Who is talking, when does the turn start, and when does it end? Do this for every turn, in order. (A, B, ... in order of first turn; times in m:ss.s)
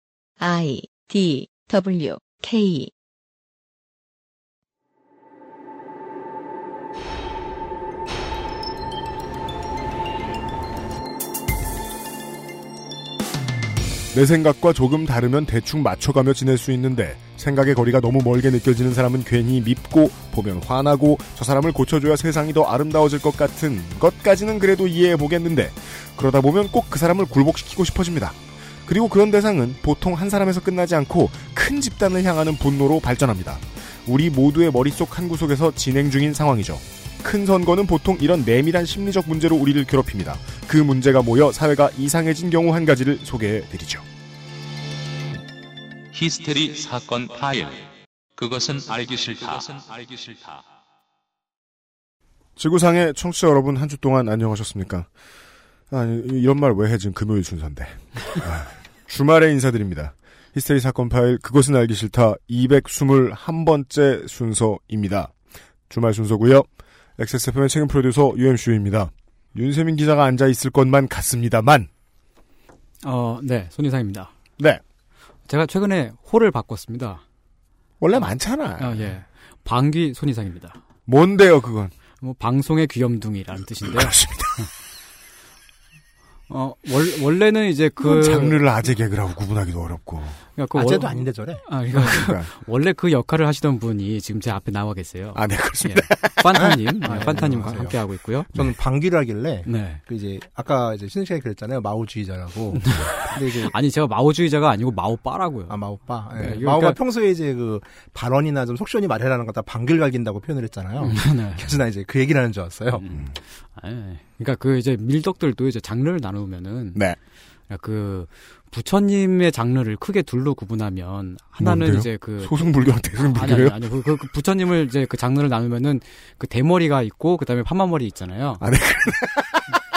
0:00.4-0:02.9 A
0:14.1-0:44.0 B
0:46.1-0:50.6 C
0:52.6-0:55.1 B
0:55.9-1:05.3 B
1:05.9-1:11.9 B
1:13.0-1:14.3 D
1:15.5-1:17.2 D
1:18.0-1:19.1 B
1:18.8-1:20.8 D
1:21.1-1:21.9 B
1:22.2-1:24.6 D
1:23.8-1:24.6 B
1:26.5-1:28.6 D
1:28.0-1:30.4 B
1:30.6-1:38.5 D
1:30.7-1:31.6 E
1:31.9-1:32.5 B
1:35.3-1:36.7 B
1:36.5-1:38.0 E
1:38.5-1:43.7 E
1:39.6-1:40.0 D
1:42.7-1:45.8 D
1:45.7-1:53.0 E
1:46.4-1:47.0 D
1:51.0-1:51.7 D
1:52.9-1:57.0 D
1:57.7-2:02.7 D
2:01.6-2:03.8 B
2:03.3-2:08.6 D
2:08.6-2:09.7 B